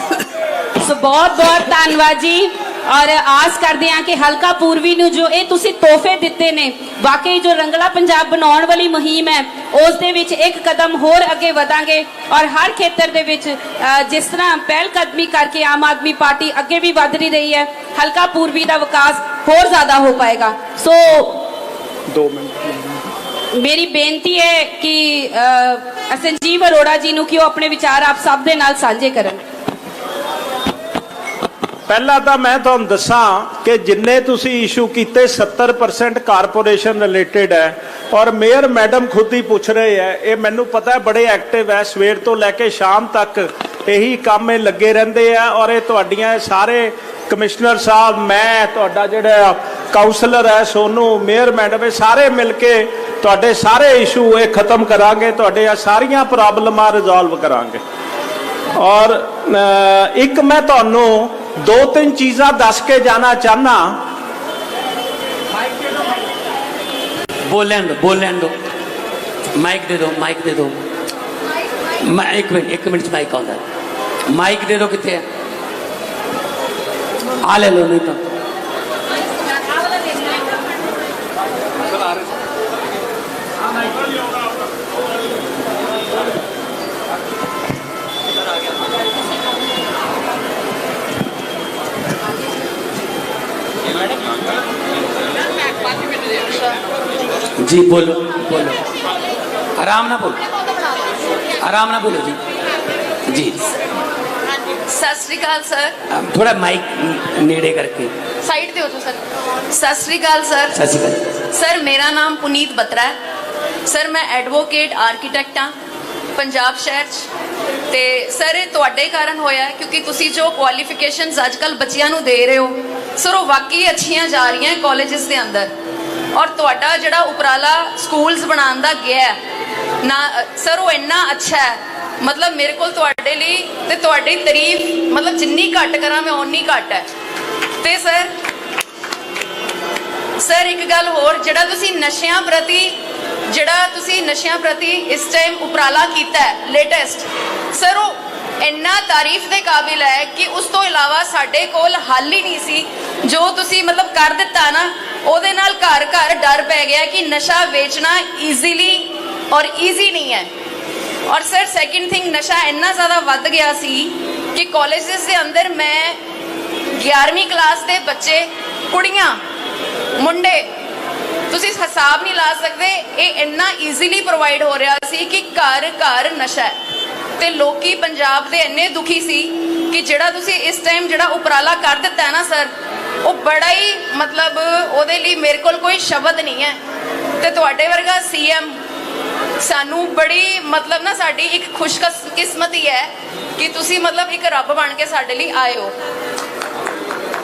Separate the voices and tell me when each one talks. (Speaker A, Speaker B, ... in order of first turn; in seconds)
Speaker A: 0.8-21.4, 23.6-29.4
Speaker B: 22.1-22.7, 31.9-57.8, 58.8-64.0
Speaker C: 67.5-68.5, 69.6-70.8, 72.0-73.6, 74.3-75.2, 77.4-78.2, 97.6-98.8, 99.8-100.4, 101.6-102.4, 103.3-103.6, 106.1-108.1, 110.7-111.2
Speaker D: 104.9-106.0, 108.5-109.2, 109.7-110.8, 111.5-113.2, 113.9-115.7, 116.4-117.3, 117.9-125.7, 126.3-129.4, 130.0-137.1, 137.8-138.3, 140.4-143.0, 143.5-160.5, 161.3-166.2, 167.0-169.4, 170.2-170.7, 171.5-176.8, 177.4-182.7, 183.2-186.8, 187.4-188.8, 189.6-195.9